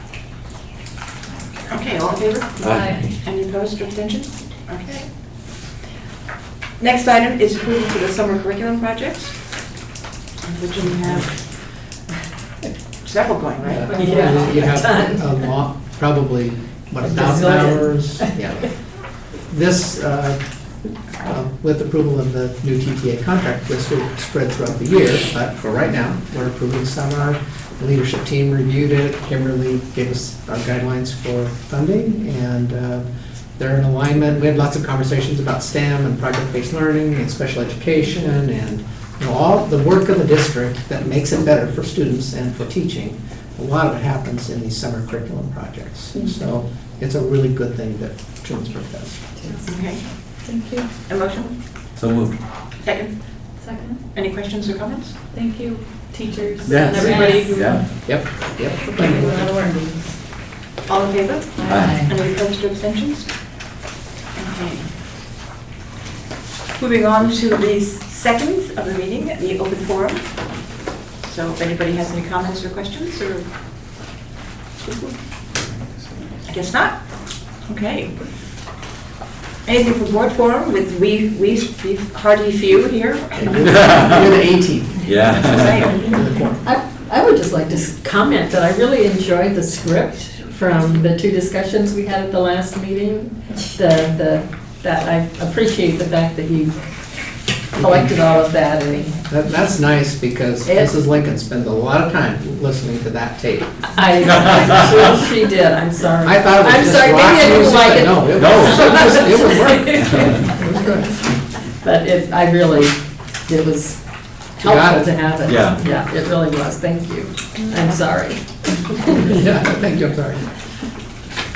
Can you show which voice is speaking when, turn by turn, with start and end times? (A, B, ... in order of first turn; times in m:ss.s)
0:01.7-0:05.1 A
0:02.6-0:03.1 B
0:02.8-0:03.0 C
0:06.8-0:09.3 A
0:10.4-0:11.3 A
0:13.0-0:14.3 A
0:13.7-0:18.7 D
0:13.8-0:15.5 C
0:17.0-0:18.7 C
0:19.3-0:20.4 D
0:21.2-0:33.0 D
0:33.6-0:49.2 D
0:49.7-0:50.0 A
0:50.4-0:50.9 E
0:51.1-0:51.5 A
0:52.0-0:52.4 B
0:52.8-0:53.1 A
0:53.6-0:54.0 E
0:54.1-0:55.2 A
0:55.3-0:57.8 E
0:56.7-0:58.1 B
0:58.1-0:59.4 D
0:59.0-0:59.7 E
0:59.0-0:59.6 C
1:00.9-1:03.3 A
1:01.7-1:02.1 B
1:04.4-1:04.9 A
1:06.8-1:10.7 A
1:11.2-1:13.4 A
1:14.8-1:15.2 A
1:16.5-1:17.0 A
1:17.7-1:18.1 A
1:19.7-1:24.2 A
1:23.4-1:26.6 D
1:23.8-1:24.1 B
1:25.0-1:25.9 B
1:25.3-1:26.2 A
1:26.6-1:36.8 C
1:37.7-1:38.2 D
1:37.8-1:39.2 C
1:39.2-1:43.8 D
1:40.6-1:41.0 C
1:44.0-1:51.0 C
1:46.2-1:51.1 D
1:48.3-1:49.0 B
1:51.8-1:54.0 C
1:54.6-1:59.4 C
1:54.6-1:55.0 D
1:55.4-1:55.8 B
1:59.2-2:00.5 D